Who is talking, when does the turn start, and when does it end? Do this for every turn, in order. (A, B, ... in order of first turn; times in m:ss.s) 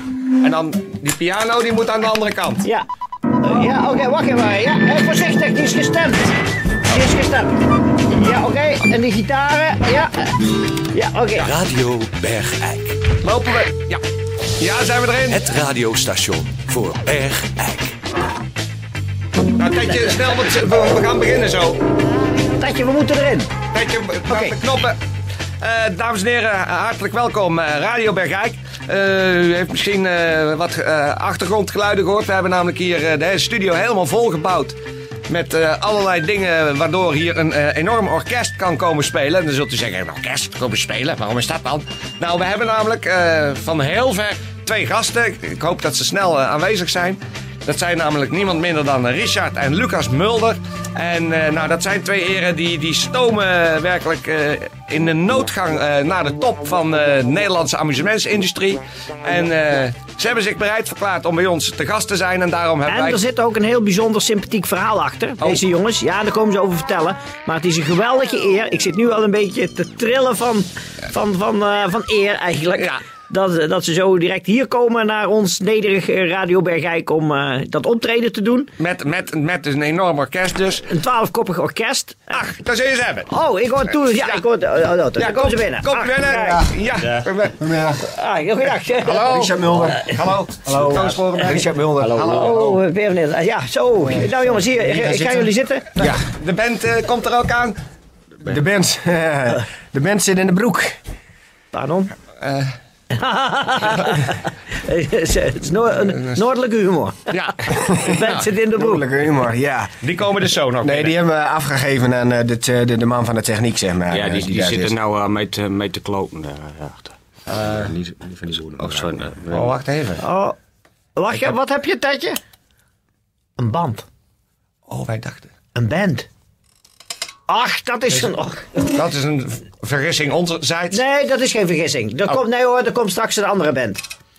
0:00.4-0:02.7 A
0:03.4-0:07.6 B
0:08.1-0:10.4 B
0:10.9-0:11.5 B
0:11.4-0:12.1 A
0:11.7-0:13.0 C
0:13.1-0:14.0 A
0:14.6-0:17.9 A
0:16.8-0:17.3 C
0:19.6-0:21.8 A
0:22.5-0:23.5 B
0:23.7-0:25.0 A
0:24.3-0:24.5 B
0:25.6-0:34.8 A
0:35.3-1:03.2 A
1:02.9-1:18.7 B
1:18.8-1:20.9 A
1:20.9-1:22.4 B
1:22.3-1:23.3 A
1:23.3-1:26.6 B
1:23.8-1:24.4 A
1:25.2-1:27.6 A
1:26.3-1:26.7 D
1:27.5-1:28.1 D
1:28.0-1:30.0 B
1:29.0-1:32.8 A
1:29.2-1:32.6 D
1:32.0-1:32.6 E
1:32.3-1:36.1 B
1:34.1-1:36.2 D
1:36.0-1:37.8 A
1:38.4-1:41.0 D
1:41.7-1:42.1 B
1:42.4-1:42.7 A
1:43.1-1:49.1 B
1:47.3-1:48.5 A
1:47.7-1:48.2 D
1:48.8-1:50.0 D
1:50.0-1:51.2 A
1:50.8-1:55.0 D
1:54.1-1:57.2 E
1:57.5-1:57.9 A
1:57.7-1:59.7 E
1:59.5-2:00.2 A
2:00.2-2:00.6 B
2:01.2-2:02.4 B
2:03.6-2:04.1 B
2:04.9-2:05.5 A
2:05.8-2:06.3 B
2:07.5-2:08.9 B
2:08.9-2:11.0 A
2:10.9-2:14.0 B